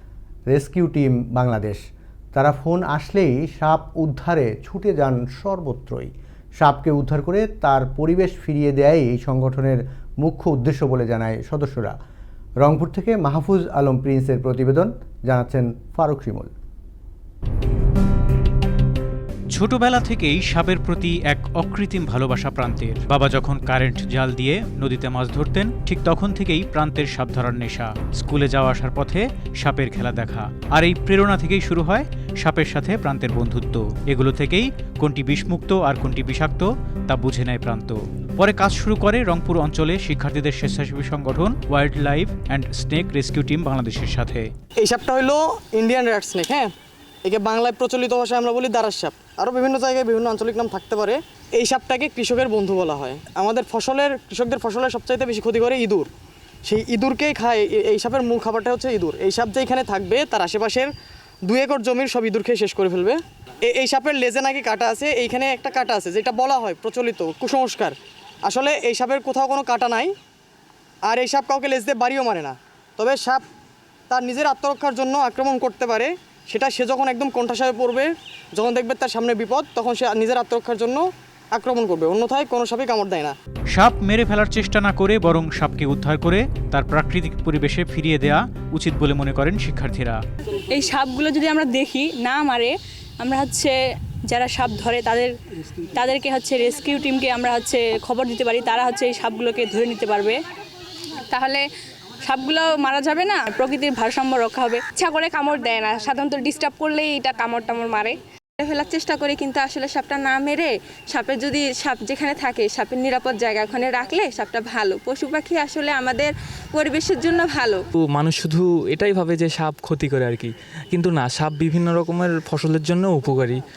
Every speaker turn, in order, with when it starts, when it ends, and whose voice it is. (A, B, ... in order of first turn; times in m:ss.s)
0:00.5-0:01.8 A
0:02.3-0:12.0 A
0:12.6-0:16.5 A
0:19.5-0:44.4 B
0:44.8-0:46.7 C
0:47.2-0:56.1 C
0:56.6-1:00.9 C
1:01.4-1:07.9 C
1:08.4-1:10.1 C
1:11.0-1:13.4 C
1:14.1-1:23.3 C
1:23.7-1:30.2 B
1:30.7-1:33.7 D
1:34.3-1:35.3 D
1:35.9-1:40.4 D
1:41.3-1:41.6 E
1:42.2-1:44.8 D
1:44.6-1:57.8 E
1:58.1-2:03.6 F